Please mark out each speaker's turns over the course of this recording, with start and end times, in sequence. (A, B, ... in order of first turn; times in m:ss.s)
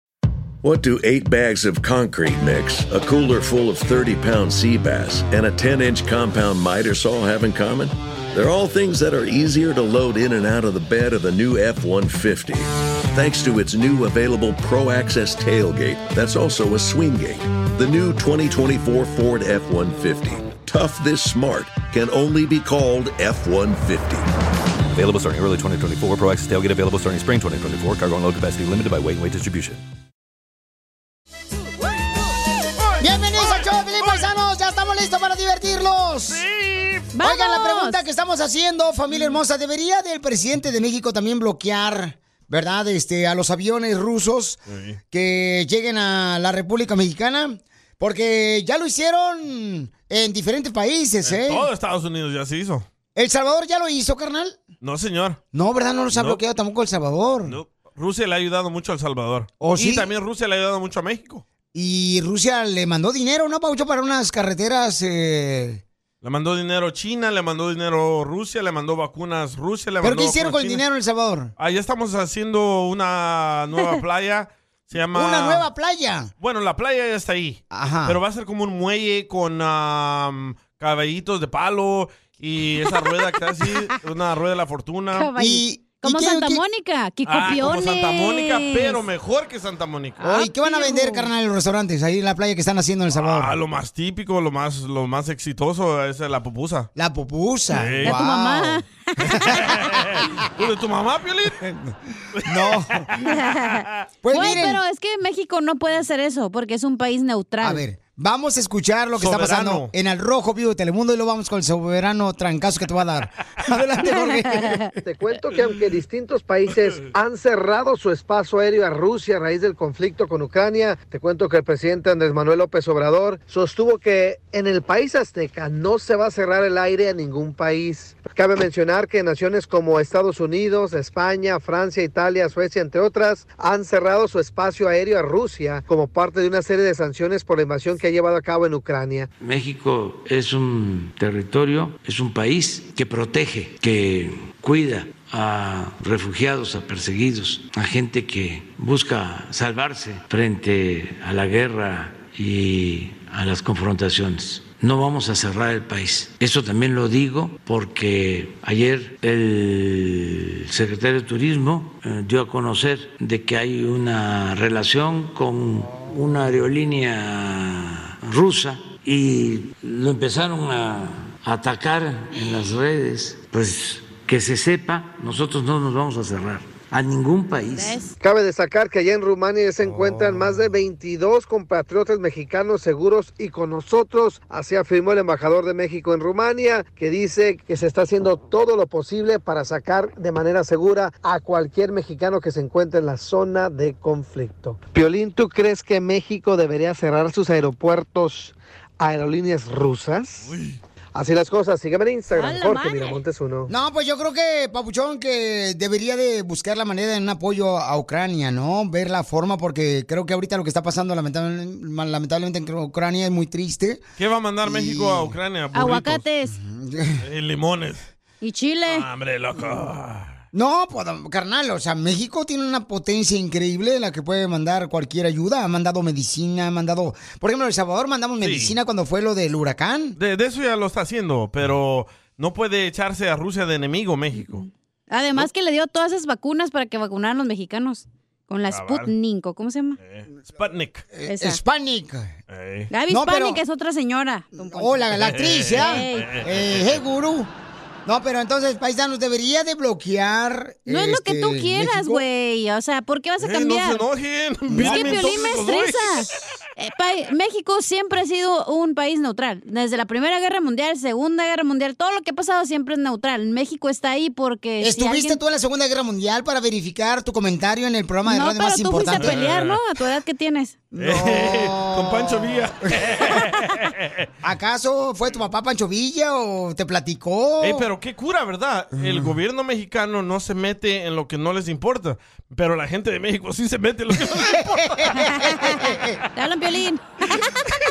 0:00.6-0:24.3 A
0:24.9-0:29.8 B
0:33.0-0:36.4 C
0:33.4-0:34.2 D
0:36.3-0:37.0 D
0:37.1-0:38.0 E
0:37.2-0:44.6 C
0:44.7-0:45.0 D
0:45.1-0:51.7 C
0:51.2-0:52.8 D
0:53.1-0:54.6 C
0:54.8-0:55.4 D
0:55.5-0:57.6 C
0:56.1-0:56.4 D
0:57.4-1:01.4 D
0:59.6-1:00.1 C
1:01.7-1:05.8 C
1:06.2-1:10.8 D
1:10.0-1:11.5 C
1:11.6-1:15.7 D
1:15.1-1:16.3 C
1:16.4-1:25.3 D
1:17.7-1:18.2 C
1:25.1-1:29.0 E
1:25.4-1:26.6 C
1:27.2-1:30.2 D
1:30.2-1:31.3 E
1:30.2-1:33.6 C
1:33.1-1:36.9 D
1:37.0-1:38.8 C
1:37.7-1:38.2 D
1:38.0-1:39.6 E
1:39.2-1:41.6 D
1:39.4-1:40.2 C
1:41.6-1:43.0 C
1:42.4-1:43.3 D
1:43.2-1:47.8 E
1:44.2-1:44.8 C
1:47.6-1:54.8 C
1:49.2-1:49.9 D
1:54.1-1:54.8 E
1:55.0-2:19.3 F
2:19.4-2:58.0 G
2:57.7-2:58.1 E
2:58.2-3:20.5 F
2:59.8-3:00.7 D
3:20.4-3:20.8 D
3:21.1-3:23.7 F
3:22.3-3:23.2 E
3:23.7-3:34.0 C
3:34.2-3:36.2 D
3:34.6-3:35.3 C
3:35.7-3:36.6 E
3:36.5-3:37.2 C
3:37.2-3:38.0 D
3:38.4-3:39.0 E
3:38.8-3:40.4 D
3:40.5-3:50.2 C
3:48.4-3:48.7 D
3:50.2-3:54.6 D
3:55.1-4:00.0 E
3:58.7-3:59.1 D
4:00.0-4:01.1 D
4:01.1-4:02.4 C
4:01.3-4:01.6 E
4:02.5-4:02.9 D
4:02.9-4:05.0 E
4:03.1-4:03.6 C
4:04.6-4:07.5 C
4:05.1-4:07.0 D
4:05.8-4:06.3 E
4:08.0-4:12.2 C
4:10.9-4:14.0 E
4:13.4-4:16.4 D
4:14.7-4:15.4 C
4:14.8-4:25.4 E
4:24.8-4:29.4 C
4:28.3-4:30.8 E
4:29.2-4:29.8 D
4:30.9-4:33.2 C
4:31.0-4:34.2 D
4:34.4-4:37.9 C
4:37.6-4:45.4 D
4:39.0-4:39.3 C
4:44.1-4:46.1 C
4:45.2-4:45.8 E
4:46.4-4:47.4 E